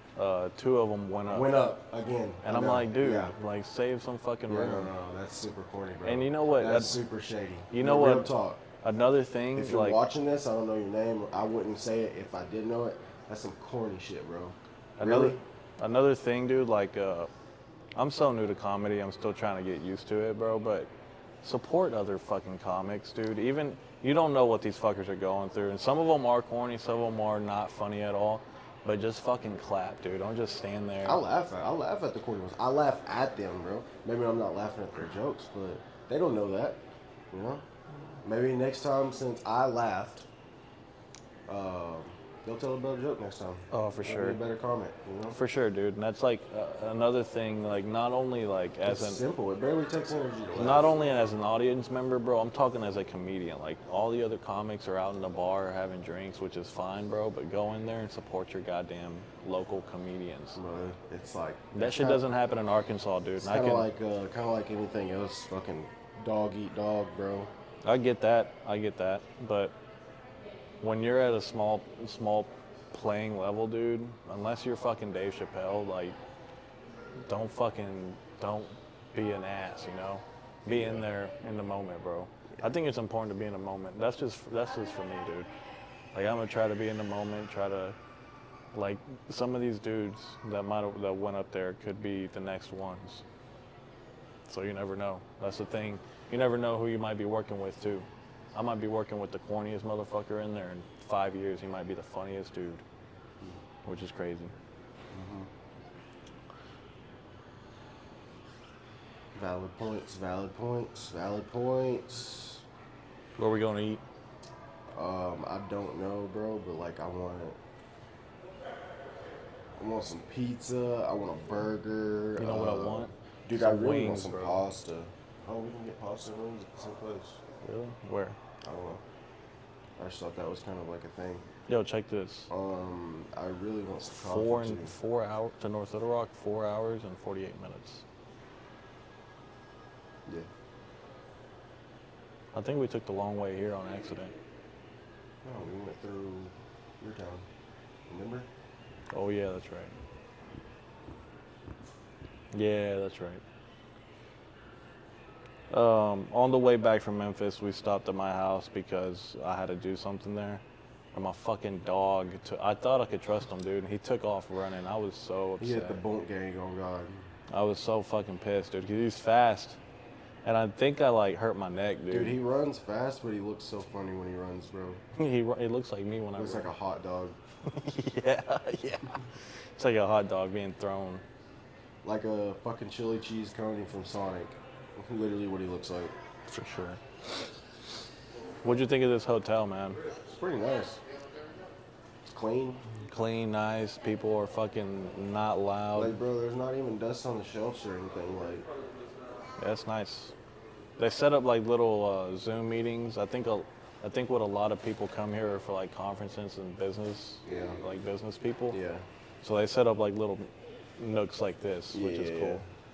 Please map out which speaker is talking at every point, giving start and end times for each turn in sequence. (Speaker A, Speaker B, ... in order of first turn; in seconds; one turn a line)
Speaker A: 0.2-1.6
Speaker B: 1.3-3.4
Speaker A: 2.4-4.9
Speaker B: 4.5-8.6
Speaker A: 6.0-7.0
Speaker A: 7.7-10.0
Speaker B: 9.6-15.4
Speaker A: 15.0-17.3
Speaker A: 18.0-20.9
Speaker A: 21.4-31.2
Speaker B: 31.1-37.6
Speaker B: 38.2-40.3
Speaker B: 41.5-45.4
Speaker A: 43.7-44.4
Speaker A: 45.3-49.2
Speaker B: 48.9-51.0
Speaker A: 50.6-60.6
Speaker B: 60.6-62.2
Speaker A: 61.7-63.9
Speaker B: 63.4-67.5
Speaker A: 67.8-69.8
Speaker A: 70.8-76.2
Speaker A: 77.3-85.5
Speaker B: 80.7-81.1
Speaker A: 86.1-88.0
Speaker A: 88.7-93.2
Speaker A: 94.5-102.8
Speaker A: 103.8-104.5
Speaker B: 105.1-105.5
Speaker B: 109.3-112.6
Speaker A: 113.4-114.0
Speaker B: 114.9-117.6
Speaker B: 119.8-127.4
Speaker A: 122.4-124.7
Speaker A: 127.6-128.4
Speaker B: 128.6-129.0
Speaker B: 130.0-131.5
Speaker A: 131.7-132.5
Speaker B: 132.5-134.9
Speaker A: 134.2-138.1
Speaker A: 142.5-144.3
Speaker B: 145.4-147.5
Speaker B: 148.1-148.5
Speaker A: 149.1-149.9
Speaker A: 152.5-153.4
Speaker A: 155.7-160.6
Speaker A: 161.1-166.0
Speaker B: 165.6-167.2
Speaker A: 167.5-169.8
Speaker A: 170.4-172.4
Speaker B: 172.1-175.0
Speaker A: 175.2-176.7
Speaker B: 176.4-177.4
Speaker A: 177.7-181.2
Speaker B: 182.0-186.1
Speaker A: 186.5-187.0
Speaker A: 188.6-190.0
Speaker B: 190.3-191.0
Speaker B: 192.3-192.8
Speaker A: 193.0-196.2
Speaker B: 195.9-198.7
Speaker A: 199.6-200.3
Speaker A: 201.0-208.8
Speaker B: 207.4-207.8
Speaker B: 208.7-209.1
Speaker A: 209.4-212.6
Speaker B: 211.9-212.7